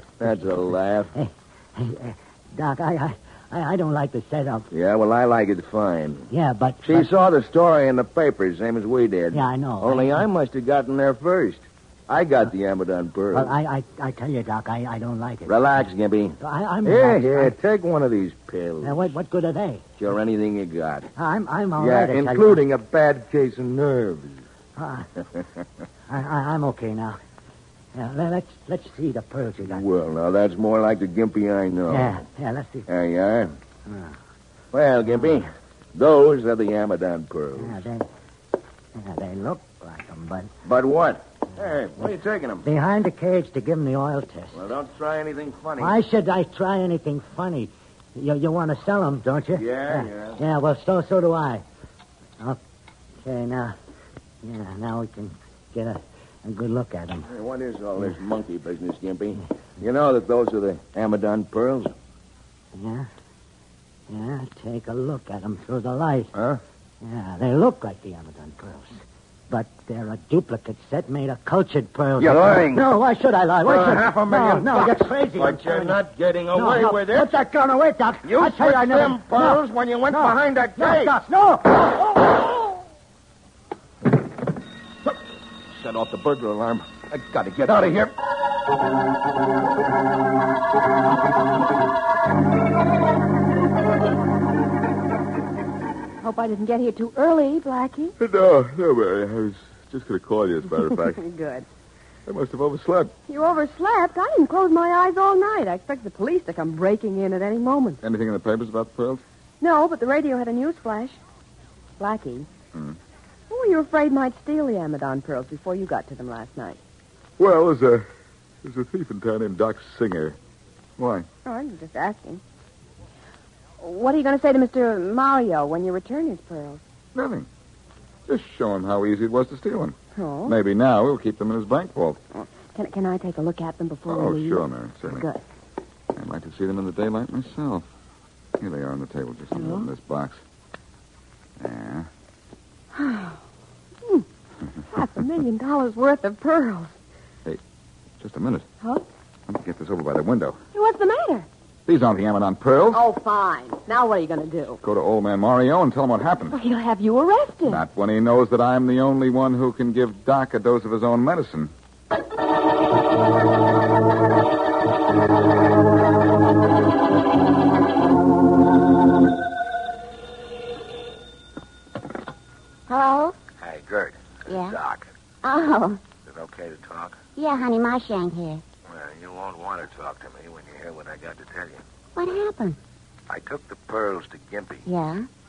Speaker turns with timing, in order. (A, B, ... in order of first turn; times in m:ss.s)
0:00.2-0:01.1 A
0:01.1-0:04.7 B
0:04.7-0:06.3 A
0:06.3-0:07.1 B
0:06.8-0:13.5 A
0:09.3-0:10.2 B
0:13.3-0:15.6 B
0:15.4-0:19.1 A
0:16.4-0:17.6 B
0:18.8-0:19.8 B
0:20.0-0:21.1 A
0:21.2-0:22.6 B
0:21.8-0:24.4 A
0:24.8-0:25.1 B
0:26.1-0:27.2 B
0:27.9-0:29.8 B
0:29.6-0:32.2 A
0:31.9-0:32.9 B
0:32.9-0:33.5 A
0:33.9-0:34.2 B
0:34.7-0:37.8 A
0:37.5-0:38.1 B
0:38.9-0:40.5 B
0:40.6-0:42.6 A
0:42.6-0:44.6 B
0:44.5-0:46.0 A
0:45.8-0:51.6 B
0:49.5-0:50.4 A
0:53.2-0:53.7 B
0:54.4-0:57.3 B
0:57.3-1:01.9 A
1:02.7-1:03.1 B
1:04.1-1:06.3 B
1:06.3-1:06.6 A
1:07.0-1:22.2 B
1:12.2-1:12.8 A
1:13.6-1:17.3 A
1:18.2-1:21.2 A
1:25.7-1:28.1 A
1:36.2-1:38.1 C
1:38.2-1:41.2 D
1:40.9-1:41.6 C
1:42.3-1:43.1 D
1:43.3-1:48.0 C
1:48.0-1:49.2 D
1:49.6-1:51.2 C
1:52.0-1:52.5 C
1:53.5-1:56.8 C
1:57.4-1:58.0 D
1:58.6-2:00.4 D
2:01.0-2:01.3 D
2:01.4-2:02.4 C
2:03.8-2:06.8 C
2:07.1-2:07.5 D
2:08.3-2:12.2 D
2:10.2-2:10.5 C
2:12.3-2:15.4 C
2:14.1-2:15.2 D
2:16.2-2:17.9 D
2:18.6-2:20.4 D
2:19.5-2:19.9 C
2:21.6-2:22.1 D
2:22.9-2:23.4 C
2:24.9-2:27.0 C
2:28.2-2:28.6 D
2:29.5-2:30.6 D
2:30.7-2:31.5 C
2:31.9-2:33.0 D
2:32.9-2:34.8 C
2:34.8-2:36.6 D
2:36.5-2:37.8 C
2:37.6-2:41.7 D
2:52.9-2:53.4 E
2:53.6-2:55.1 A
2:54.5-2:54.8 E
2:55.4-2:56.0 E
2:56.2-2:57.2 A
2:57.4-2:58.6 E
2:58.8-3:01.8 A
3:02.2-3:02.8 E
3:03.3-3:04.8 A
3:04.8-3:05.2 E